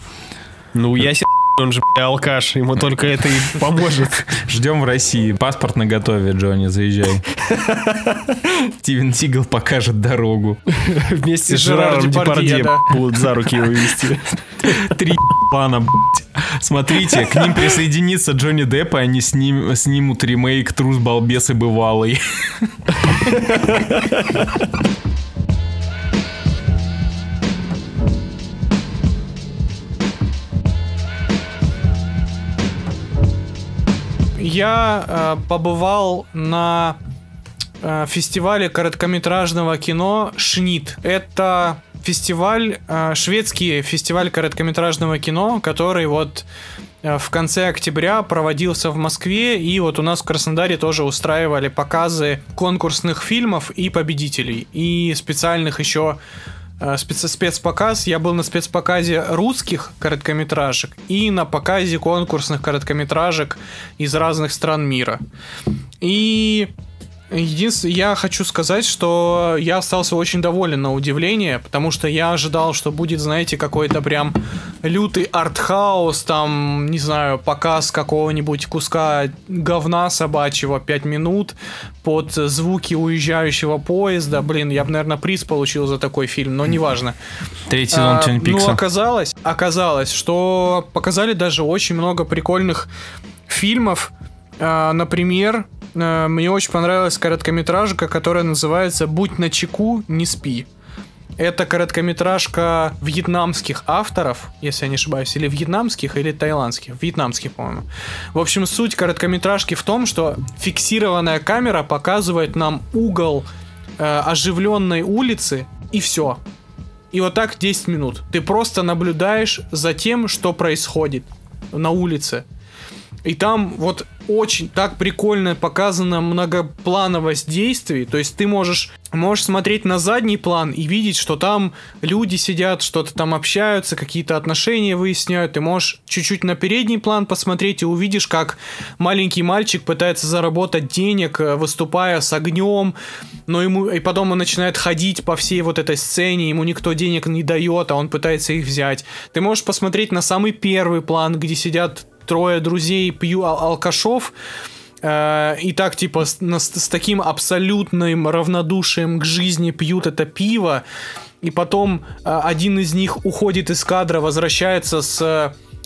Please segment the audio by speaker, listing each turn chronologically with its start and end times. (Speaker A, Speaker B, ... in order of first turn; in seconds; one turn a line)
Speaker A: 0.7-4.4
Speaker B: 4.4-7.2
Speaker A: 7.5-8.4
Speaker B: 8.6-10.6
Speaker A: 10.8-14.9
Speaker C: 11.5-12.9
Speaker B: 14.6-22.7
Speaker A: 23.3-24.4
Speaker C: 34.4-37.0
Speaker C: 37.8-46.5
Speaker C: 47.0-56.2
Speaker C: 56.8-65.2
Speaker C: 66.0-66.7
Speaker C: 67.3-87.2
Speaker B: 87.7-88.8
Speaker C: 87.9-92.9
Speaker C: 93.5-100.7
Speaker C: 101.4-113.5
Speaker C: 114.0-116.4
Speaker C: 117.1-122.4
Speaker C: 123.2-142.9
Speaker C: 143.5-154.3
Speaker C: 155.0-160.8
Speaker C: 161.4-165.5